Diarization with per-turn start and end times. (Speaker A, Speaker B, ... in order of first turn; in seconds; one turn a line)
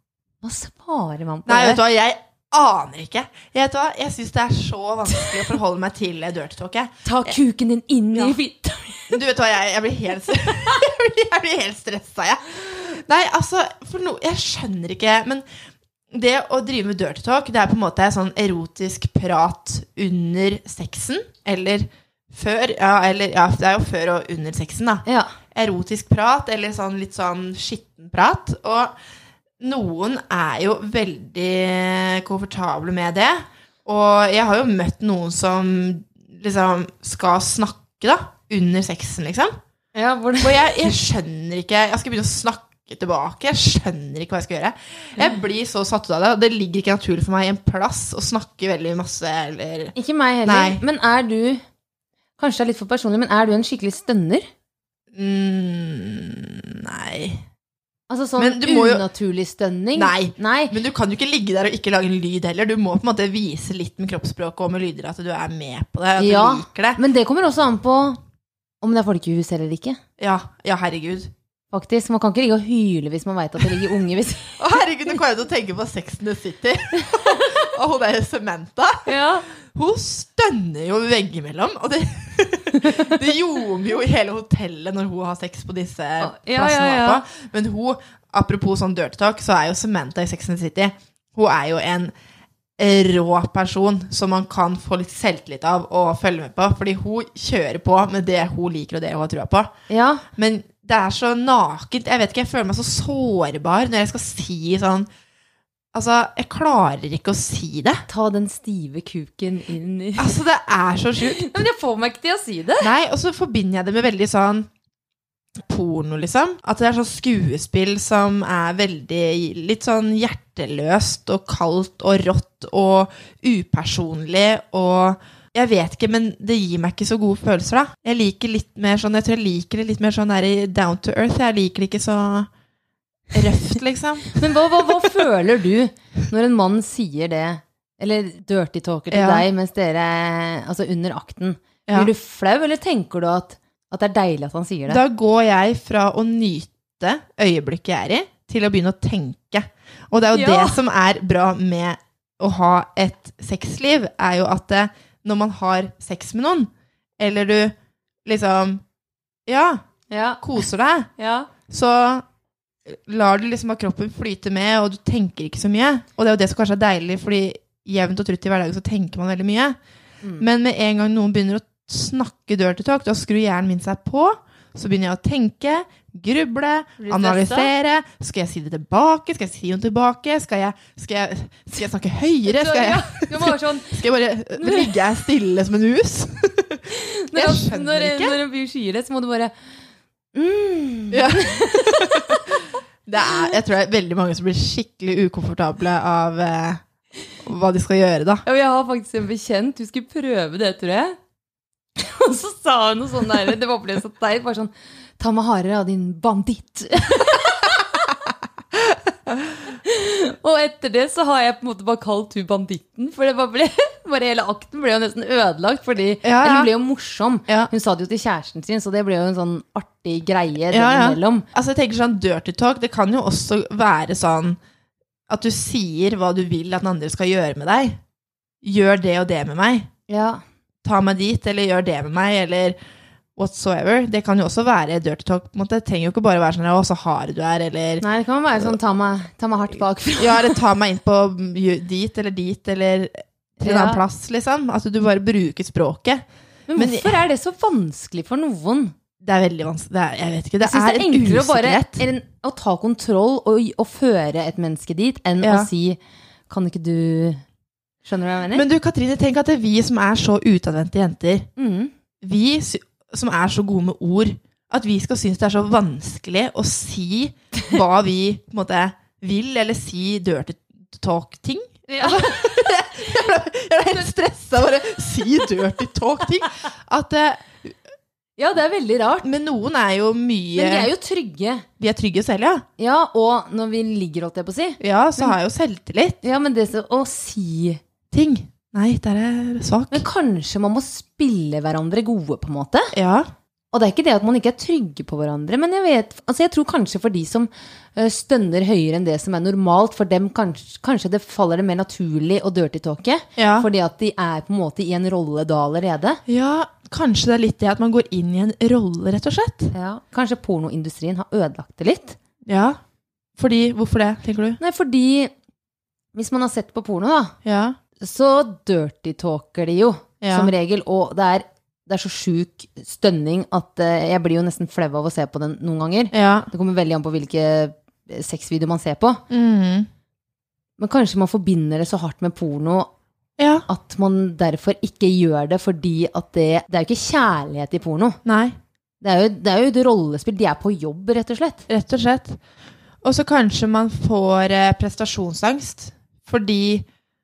Speaker A: 0.4-1.8
Speaker B: 1.5-6.9
Speaker A: 7.0-9.2
Speaker B: 9.1-15.4
Speaker B: 16.1-28.9
Speaker A: 25.1-25.3
Speaker B: 29.6-39.5
Speaker A: 40.0-40.9
Speaker B: 40.4-49.9
Speaker A: 50.0-51.6
Speaker B: 50.5-50.8
Speaker A: 52.4-54.5
Speaker B: 55.1-57.4
Speaker A: 58.1-60.8
Speaker B: 58.4-59.0
Speaker B: 60.0-67.0
Speaker A: 66.2-68.2
Speaker A: 68.8-70.0
Speaker B: 70.2-71.3
Speaker A: 71.7-74.6
Speaker B: 74.6-92.1
Speaker A: 77.0-77.5
Speaker A: 79.1-79.5
Speaker A: 86.2-87.2
Speaker B: 92.8-99.7
Speaker A: 99.9-100.2
Speaker B: 100.3-105.1
Speaker B: 105.9-108.0
Speaker A: 108.1-110.4
Speaker B: 110.2-111.5
Speaker A: 111.2-112.9
Speaker B: 112.8-114.7
Speaker B: 115.6-132.5
Speaker B: 133.3-134.4
Speaker A: 134.3-145.0
Speaker B: 139.1-139.4
Speaker B: 144.9-158.8
Speaker A: 150.3-150.8
Speaker B: 159.5-159.8
Speaker A: 160.1-160.4
Speaker B: 160.4-161.1
Speaker A: 161.2-161.5
Speaker B: 161.7-162.2
Speaker B: 162.9-169.8
Speaker B: 170.4-188.4
Speaker A: 177.0-177.7
Speaker A: 182.5-184.0
Speaker A: 184.6-184.9
Speaker A: 186.9-189.5
Speaker A: 190.3-192.6
Speaker B: 191.1-196.8
Speaker A: 193.2-193.5
Speaker B: 197.4-198.4
Speaker A: 198.5-201.2
Speaker A: 202.0-207.7
Speaker A: 209.7-221.5
Speaker B: 216.2-216.7
Speaker B: 220.7-224.6
Speaker B: 225.3-228.0
Speaker B: 228.6-229.9
Speaker A: 230.1-230.4
Speaker B: 230.8-232.8
Speaker B: 233.4-238.0
Speaker A: 238.0-240.6
Speaker B: 240.2-247.2
Speaker A: 243.6-244.0
Speaker A: 246.7-248.9
Speaker B: 249.2-252.1
Speaker A: 250.6-257.4
Speaker B: 255.4-255.7
Speaker A: 258.1-258.6
Speaker B: 258.5-261.5
Speaker A: 261.6-261.9
Speaker B: 262.2-277.9
Speaker A: 271.9-273.0
Speaker A: 278.4-279.3
Speaker B: 279.2-280.9
Speaker A: 280.6-281.7
Speaker B: 281.8-282.7
Speaker A: 282.8-285.4
Speaker B: 284.8-286.2
Speaker A: 286.2-287.8
Speaker B: 288.1-290.1
Speaker A: 289.9-292.9
Speaker B: 292.9-293.3
Speaker A: 293.7-306.2
Speaker B: 303.4-303.7
Speaker B: 306.3-309.7
Speaker A: 309.7-312.2
Speaker B: 312.5-312.8
Speaker B: 313.4-314.6
Speaker A: 314.6-315.3
Speaker A: 316.1-317.4
Speaker B: 317.4-317.8
Speaker A: 318.0-329.2
Speaker B: 320.2-320.5
Speaker B: 326.1-326.5
Speaker B: 329.3-329.9
Speaker A: 330.8-332.9
Speaker B: 333.4-333.7
Speaker A: 333.7-338.2
Speaker B: 338.2-338.6
Speaker A: 339.0-341.7
Speaker B: 341.7-342.4
Speaker B: 343.0-346.9